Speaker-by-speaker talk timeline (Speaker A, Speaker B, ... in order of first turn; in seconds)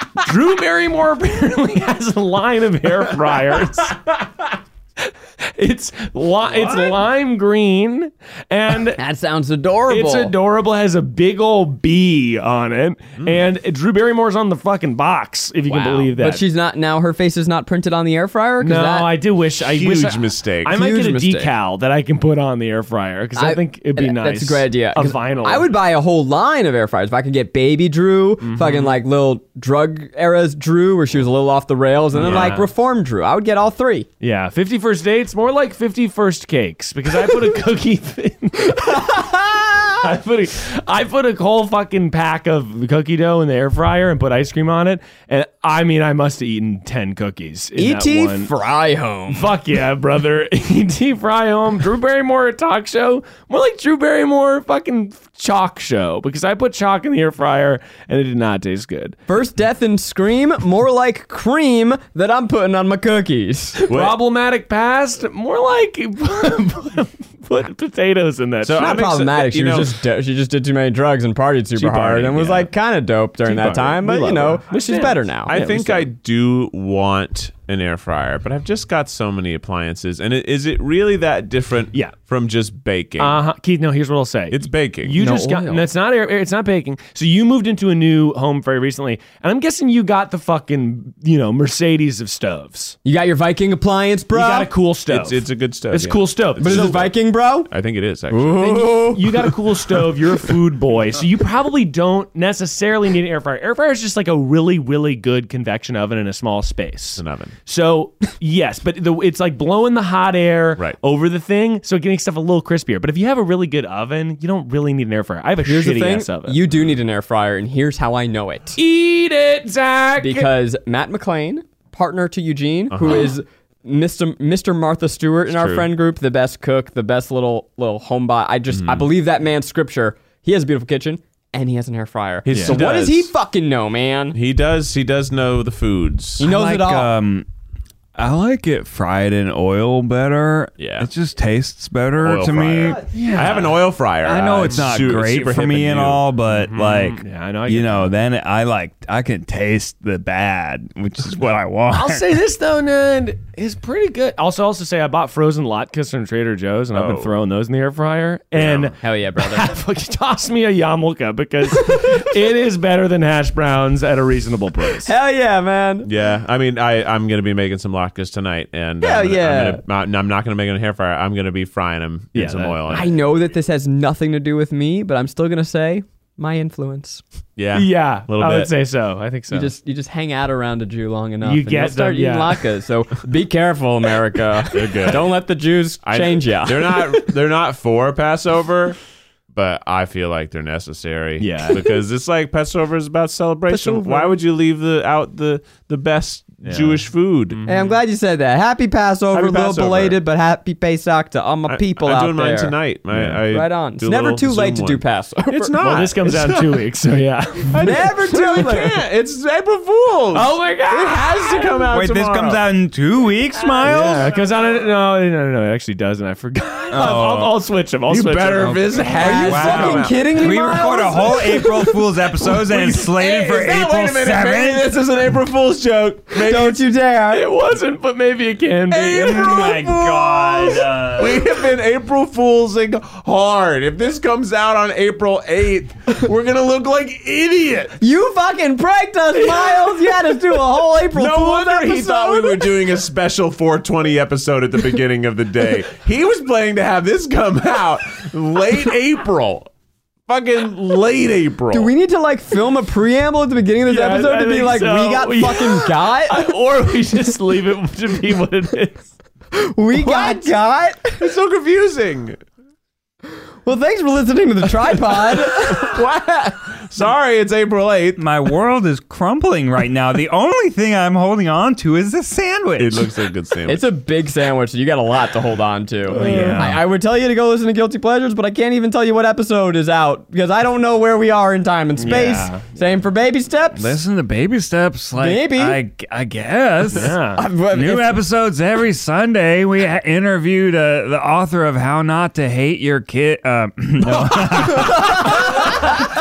Speaker A: 0.2-9.0, 9.9-16.4, 18.6-25.8, 28.4-29.0, 32.1-32.7, 34.2-39.3, 39.9-48.5, 49.3-59.2, 63.8-69.0, 73.4-76.1, 83.2-93.0, 94.3-97.1, 99.1-116.6, 118.8-120.5, 132.5-133.0, 143.1-143.7, 144.6-145.0, 146.5-148.1, 151.9-165.1, 172.3-173.1, 177.7-179.7, 181.4-182.7, 191.4-191.9, 193.7-194.3, 196.6-198.0, 205.8-208.0, 210.3-211.9, 213.7-218.9, 222.5-223.1, 227.3-229.7, 253.8-259.1, 259.9-260.5, 276.1-276.8, 282.0-282.6, 286.9-287.4
Speaker B: 9.0-10.4, 15.7-19.1, 20.7-21.5, 23.4-34.1, 38.7-40.0, 47.8-49.6, 59.3-63.8, 68.8-75.9, 85.2-85.9, 93.0-94.7, 96.6-97.7, 98.3-99.5, 115.7-118.8, 120.2-134.4, 136.4-137.1, 159.0-159.8, 161.7-162.2, 165.0-166.1, 169.0-169.8, 172.9-177.2, 179.5-187.2, 197.7-202.8, 203.5-205.7, 207.8-209.0, 219.1-221.7, 226.4-227.5, 238.0-242.7, 251.7-256.5, 259.5-261.2, 263.6-265.9, 273.7-284.0, 285.2-285.8, 287.0-288.2
Speaker C: 19.6-20.8, 32.2-32.6, 63.9-64.2, 68.6-70.0, 71.8-72.7, 75.5-83.4, 84.5-85.2, 95.1-97.2, 97.7-99.0, 107.2-107.5, 122.9-123.3, 125.5-125.9, 128.7-129.1, 132.5-133.3, 134.3-136.4, 140.8-141.1, 142.2-146.2, 156.9-157.3, 158.5-158.9, 166.1-173.1, 177.6-178.7, 184.7-185.4, 186.0-189.0, 189.5-197.6, 199.3-200.2, 201.7-206.9, 207.7-212.6, 218.1-220.2, 223.1-226.8, 228.9-238.0, 241.1-249.7, 250.3-251.9, 261.2-262.4, 265.5-268.2, 272.8-273.9
Speaker D: 136.4-137.5, 138.2-143.6, 144.2-152.3, 211.9-214.3, 216.9-217.6, 218.6-224.9, 229.1-231.5, 268.2-273.1, 276.1-276.8, 283.8-296.0